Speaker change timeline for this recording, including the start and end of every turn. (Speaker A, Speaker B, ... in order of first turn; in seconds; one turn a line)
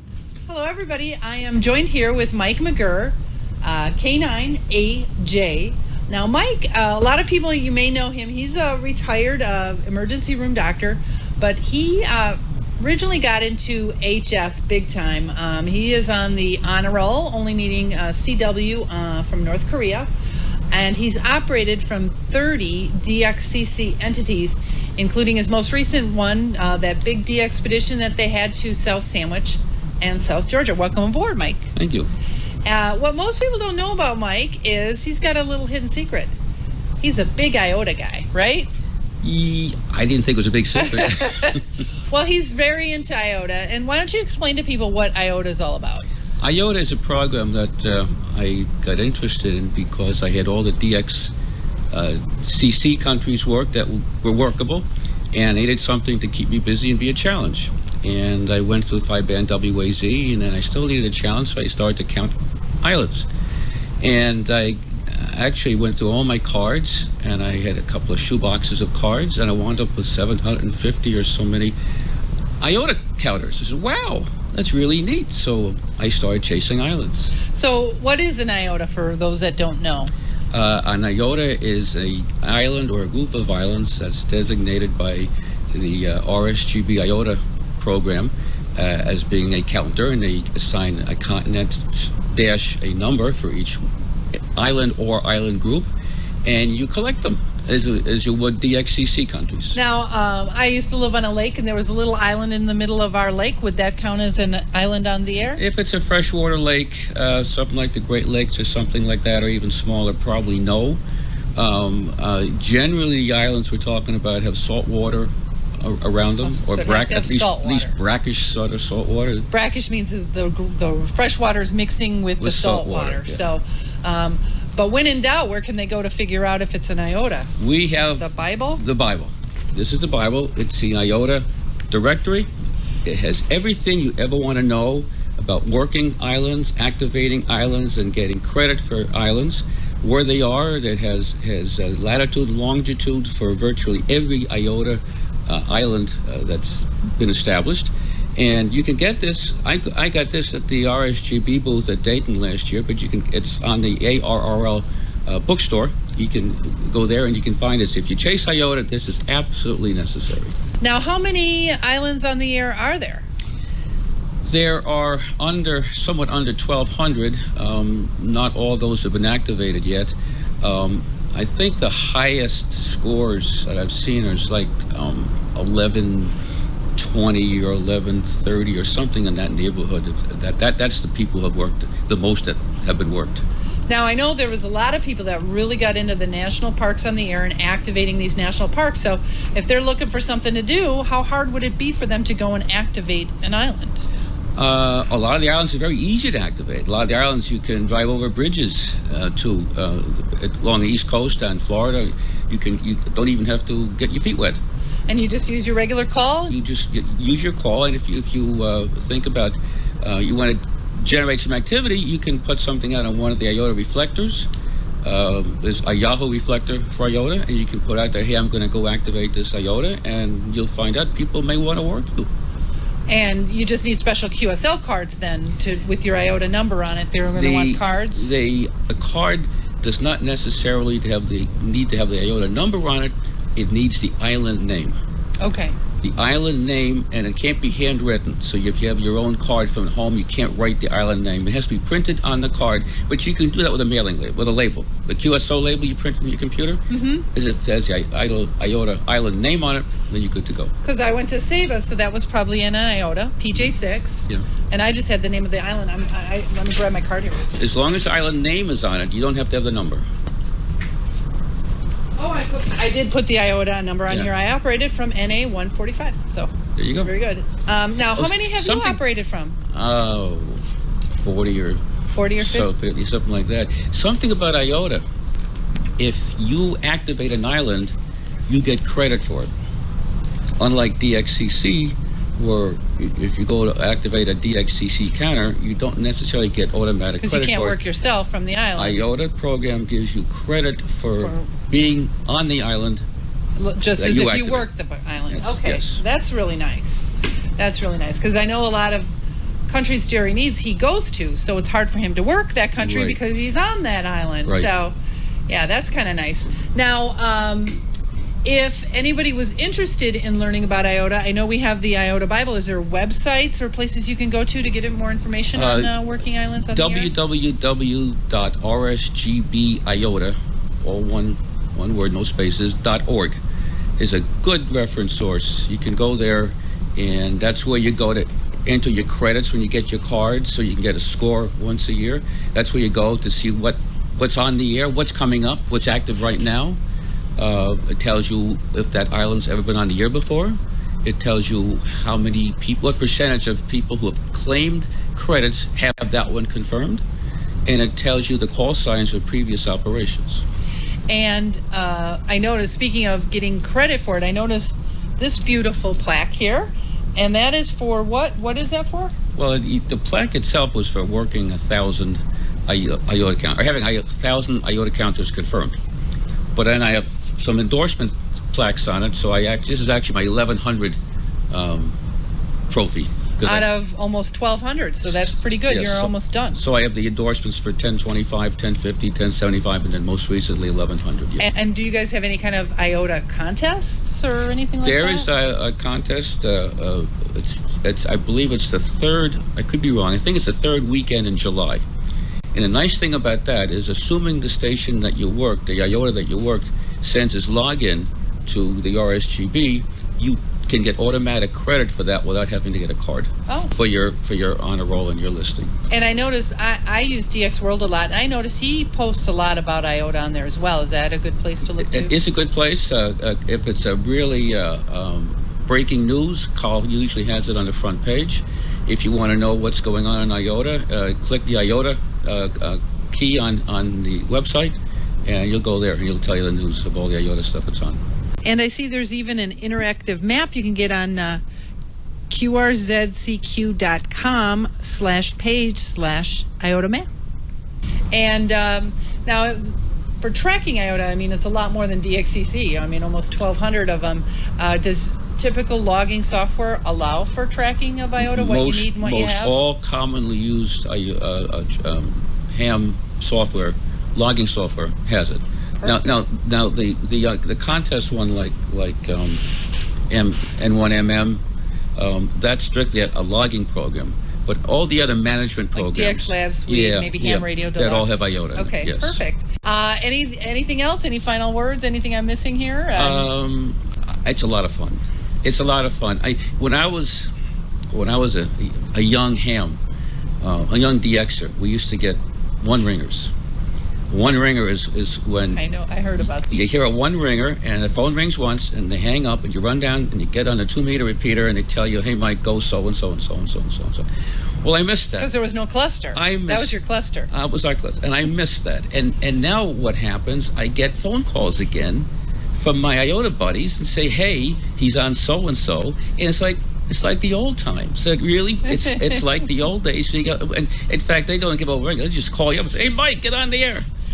Speaker A: 0.5-20.1
Speaker A: 20.7-31.7
Speaker B: 31.8-32.1
Speaker A: 32.6-36.3
Speaker A: 37.0-38.7
Speaker B: 39.2-41.6
Speaker A: 40.8-46.0
Speaker B: 46.4-51.3
Speaker B: 51.9-63.3
Speaker B: 64.0-71.7
Speaker B: 72.6-77.3
Speaker A: 77.5-80.1
Speaker B: 80.5-93.8
Speaker B: 94.5-95.9
Speaker B: 96.4-99.8
Speaker A: 99.7-105.6
Speaker B: 105.5-111.0
Speaker B: 111.5-119.5
Speaker A: 116.4-118.0
Speaker A: 119.5-127.5
Speaker B: 122.4-123.4
Speaker B: 127.6-132.5
Speaker A: 128.2-128.8
Speaker B: 133.0-160.5
Speaker A: 160.8-163.2
Speaker B: 164.4-176.3
Speaker B: 176.9-183.4
Speaker A: 183.9-194.0
Speaker B: 194.6-204.6
Speaker A: 205.1-206.5
Speaker B: 206.5-214.5
Speaker B: 215.0-222.3
Speaker A: 223.1-228.3
Speaker B: 227.3-234.9
Speaker A: 235.4-235.8
Speaker B: 236.0-246.8
Speaker A: 246.9-247.2
Speaker B: 247.3-250.7
Speaker A: 250.8-257.5
Speaker B: 257.6-260.0
Speaker A: 262.2-266.5
Speaker B: 266.8-267.1
Speaker A: 267.0-269.6
Speaker B: 268.1-269.0
Speaker B: 269.7-271.8
Speaker A: 272.1-272.7
Speaker B: 272.4-275.0
Speaker B: 276.0-277.9
Speaker B: 278.5-279.5
Speaker B: 280.6-287.8
Speaker A: 287.2-289.0
Speaker B: 288.8-293.0
Speaker A: 291.2-291.5
Speaker A: 293.6-299.1
Speaker B: 294.0-294.7
Speaker B: 295.3-296.0
Speaker A: 299.7-304.9
Speaker B: 302.8-303.2
Speaker A: 305.5-307.8
Speaker A: 308.4-317.1
Speaker B: 315.5-315.9
Speaker B: 316.7-323.4
Speaker B: 324.0-336.8
Speaker B: 337.4-347.0
Speaker B: 347.6-350.4
Speaker A: 351.1-359.1
Speaker B: 359.4-365.7
Speaker B: 366.5-371.0
Speaker B: 371.5-371.9
Speaker B: 372.7-373.6
Speaker A: 373.4-376.6
Speaker B: 375.2-381.5
Speaker A: 381.4-385.3
Speaker B: 384.8-391.8
Speaker B: 392.5-405.7
Speaker A: 405.9-412.1
Speaker B: 411.8-428.0
Speaker A: 428.4-431.4
Speaker A: 432.3-437.1
Speaker A: 438.1-449.7
Speaker B: 448.2-459.4
Speaker A: 455.8-456.1
Speaker B: 460.1-461.4
Speaker B: 461.9-469.2
Speaker A: 465.7-473.3
Speaker B: 472.9-477.3
Speaker B: 477.9-479.8
Speaker B: 480.4-483.3
Speaker B: 484.1-485.6
Speaker A: 485.5-486.7
Speaker B: 486.5-494.1
Speaker B: 494.6-495.3
Speaker A: 495.2-497.3
Speaker B: 496.1-496.8
Speaker B: 497.3-513.9
Speaker A: 508.7-509.2